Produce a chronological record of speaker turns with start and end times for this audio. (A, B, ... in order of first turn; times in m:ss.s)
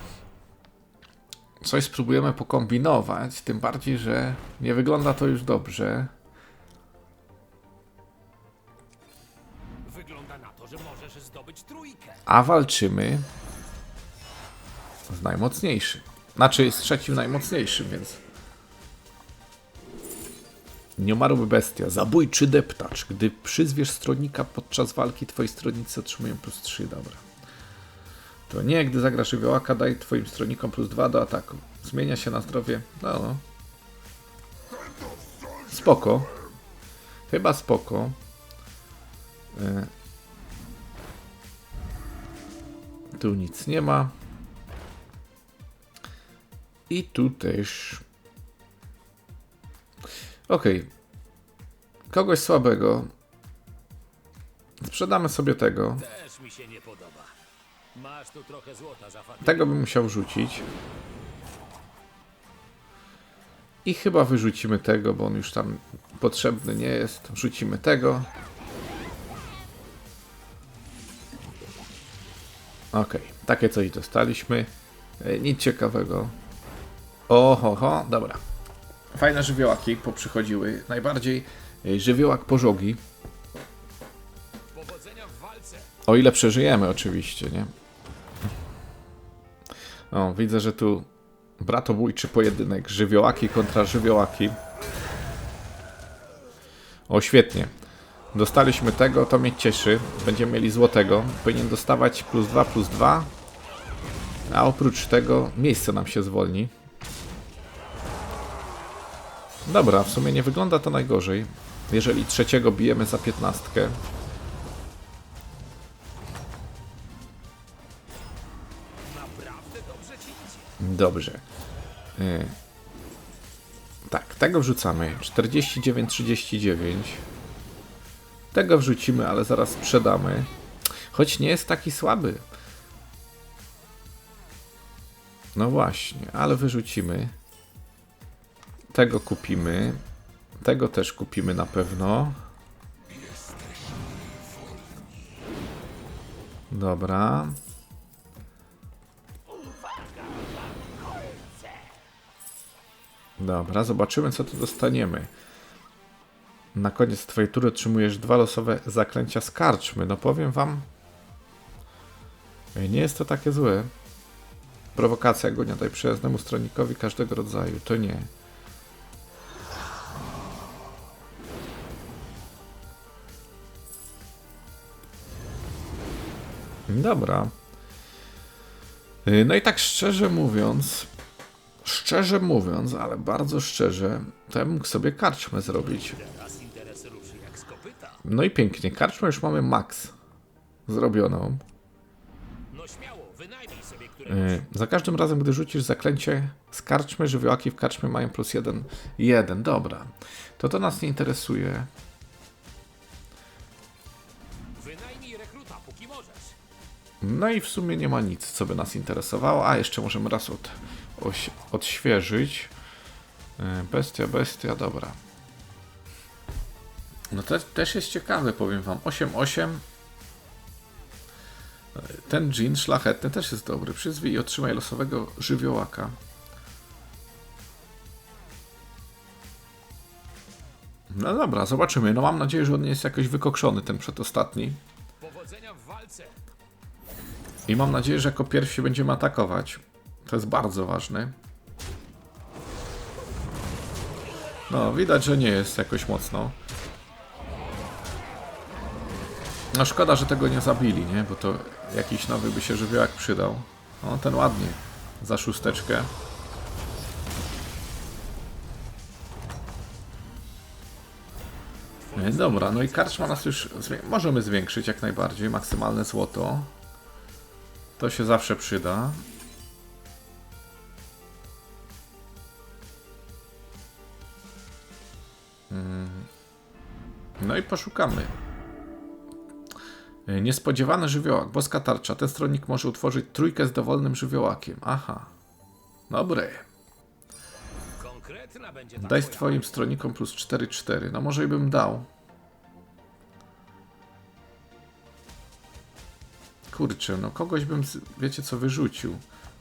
0:01.6-0:06.1 A
0:09.8-0:12.2 B
0:12.2-0:13.2 A
0:15.1-0:18.2 A
0:21.0-0:27.2 A
0:28.5-0:33.4 A
0:35.7-0:36.3 A
0:37.3-0:38.2 A
0:39.5-0:39.9 A
0:43.2-0:44.1 A
0:46.9-0:48.0 A
0:50.5-0:50.9 A
0:52.1-0:53.1 A
0:54.8-0:56.0 A
0:56.0-0:57.3 B
0:57.9-1:00.0 B
0:59.4-1:00.7 A
1:03.8-1:08.3 A
1:12.9-1:16.3 A
1:17.3-1:18.4 A
1:19.1-1:23.0 A
1:24.7-1:25.9 B
1:26.0-1:27.7 A
1:30.1-1:31.1 A
1:31.6-1:34.6 A
1:37.1-1:37.7 A
1:38.3-1:43.3 A
1:44.5-1:46.7 A
1:49.6-1:54.0 A
1:59.0-2:00.8 B
2:00.8-2:01.4 A
2:02.2-2:02.5 A
2:04.1-2:07.2 A
2:08.5-2:10.5 A
2:11.1-2:12.4 A
2:15.6-2:17.3 A
2:18.9-2:20.0 A
2:20.6-2:22.4 A
2:26.7-2:27.6 A
2:33.4-2:35.3 A
2:36.7-2:40.9 A
2:42.7-2:43.9 A
2:44.9-2:48.3 A
2:56.9-2:57.5 A
2:59.2-3:01.1 A
3:01.8-3:06.2 A
3:05.6-3:08.2 B
3:08.2-3:10.1 A
3:10.9-3:11.6 A
3:12.7-3:14.7 B
3:14.3-3:21.9 A
3:24.7-3:26.6 B
3:27.2-3:32.7 A
3:33.6-3:35.2 A
3:37.3-3:39.8 A
3:41.9-3:46.2 A
3:51.1-3:54.8 A
3:55.2-3:56.4 B
3:57.7-4:01.3 A
4:04.7-4:06.6 A
4:09.7-4:16.1 A
4:22.0-4:24.2 B
4:22.2-4:26.7 A
4:28.0-4:29.2 A
4:35.7-4:36.3 A
4:37.4-4:38.3 A
4:40.3-4:45.3 A
4:46.1-4:46.6 A
4:48.0-4:49.9 B
4:49.0-4:52.1 A
4:56.7-4:59.2 A